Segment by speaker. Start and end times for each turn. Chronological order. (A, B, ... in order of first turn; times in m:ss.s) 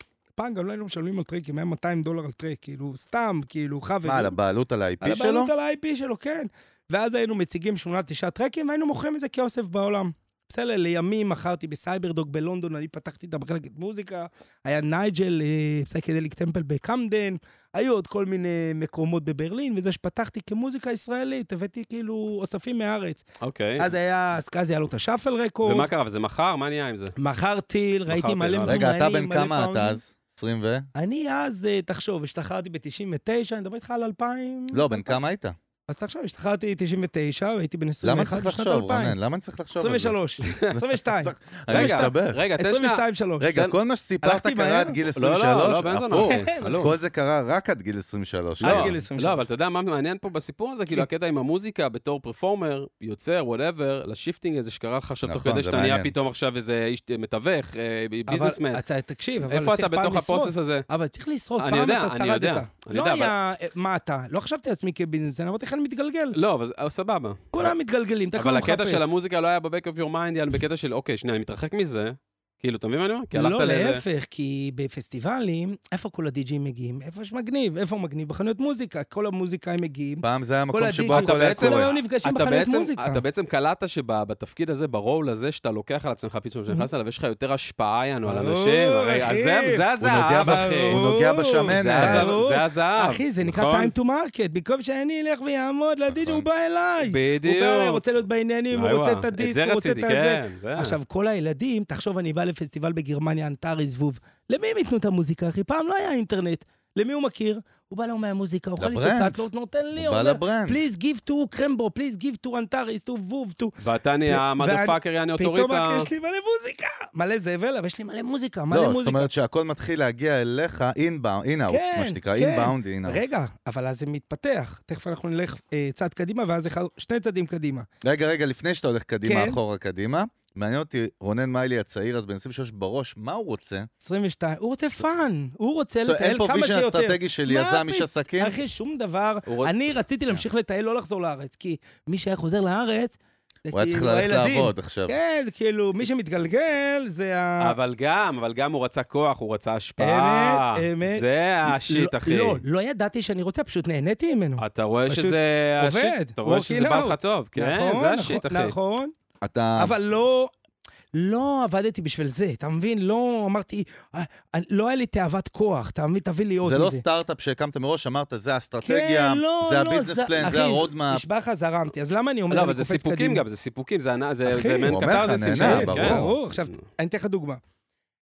0:00.4-0:04.4 A
0:04.0-0:05.5 B
0:05.0-0:23.2 A
0:23.4-0:23.9 C
0:23.8-0:25.9 A
0:25.6-0:27.2 C
0:27.2-0:30.0 A
0:28.1-0:28.8 C
0:28.6-0:30.9 B
0:31.0-0:35.2 A
0:34.7-0:35.6 B
0:35.9-0:39.2 A
0:38.0-0:40.2 B
0:39.8-0:43.7 A
0:40.7-0:42.4 B
0:41.7-0:43.0 C
0:43.4-0:49.0 B
0:44.2-0:45.0 A
0:45.1-0:46.9 C
0:46.1-0:46.9 A
0:48.6-0:49.4 A
0:48.6-0:58.8 C
0:55.2-0:56.1 B
0:58.3-1:06.4 A
0:59.4-1:00.9 C
1:01.6-1:03.3 C
1:06.3-1:07.7 C
1:07.5-1:09.1 A
1:08.4-1:14.0 C
1:13.3-1:23.2 A
1:20.2-1:21.9 B
1:21.1-1:31.0 C
1:28.2-1:29.9 A
1:30.0-1:32.3 B
1:30.4-1:59.3 A
1:31.7-1:34.0 C
1:36.1-1:36.4 B
1:37.0-1:38.0 C
1:38.7-1:41.0 C
1:48.8-1:50.8 B
1:53.8-1:56.1 C
1:58.7-2:03.4 B
2:01.7-2:07.9 A
2:08.0-2:13.9 B
2:09.2-2:09.6 A
2:14.0-2:27.8 A
2:16.0-2:18.6 B
2:19.5-2:19.7 C
2:23.7-2:25.2 B
2:27.6-2:32.6 C
2:30.0-2:39.1 A
2:34.6-2:38.7 C
2:39.4-2:39.9 B
2:39.8-2:40.5 A
2:41.1-2:47.0 A
2:46.6-2:51.2 B
2:48.8-2:53.4 A
2:52.5-2:56.2 C
2:54.5-2:57.6 A
2:54.9-2:56.4 B